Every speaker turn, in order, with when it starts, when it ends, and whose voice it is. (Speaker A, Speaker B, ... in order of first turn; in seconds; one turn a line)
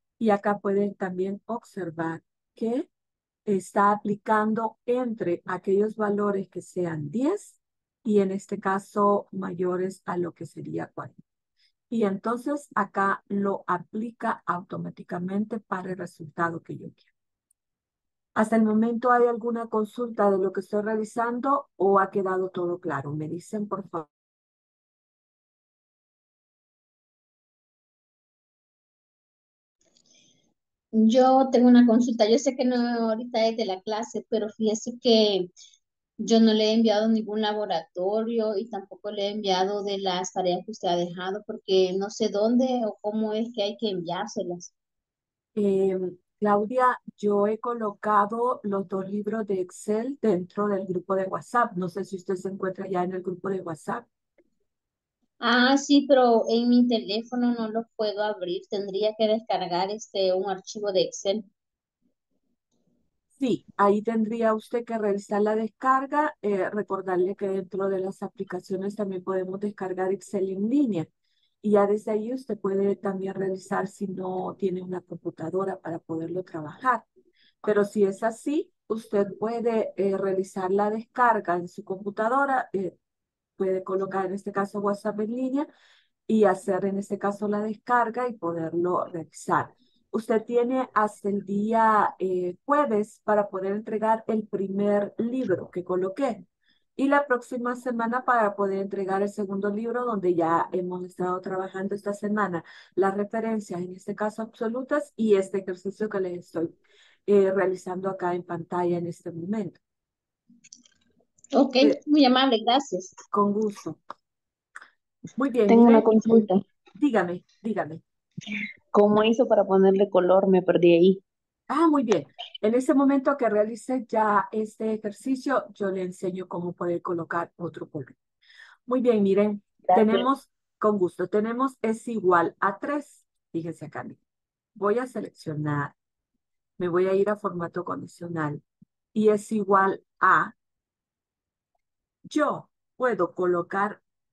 Speaker A: 0.2-2.9
Speaker A: 3.5-11.2
Speaker A: 11.9-17.1
Speaker A: 18.4-24.1
Speaker B: 30.9-35.5
Speaker B: 36.2-44.7
Speaker A: 45.6-54.1
Speaker B: 55.4-61.5
Speaker A: 63.4-71.1
Speaker A: 71.6-77.1
Speaker A: 77.6-83.0
Speaker A: 83.6-85.7
Speaker A: 86.3-96.4
Speaker A: 97.0-106.8
Speaker A: 107.3-109.8
Speaker B: 111.5-113.2
Speaker A: 113.3-114.0
Speaker A: 115.4-116.4
Speaker C: 115.7-116.6
Speaker A: 117.0-118.0
Speaker C: 118.9-121.2
Speaker A: 121.7-128.2
Speaker A: 128.9-134.2
Speaker C: 129.9-130.3
Speaker A: 134.8-135.9
Speaker A: 136.8-138.6
Speaker A: 139.1-140.5
Speaker A: 142.3-144.0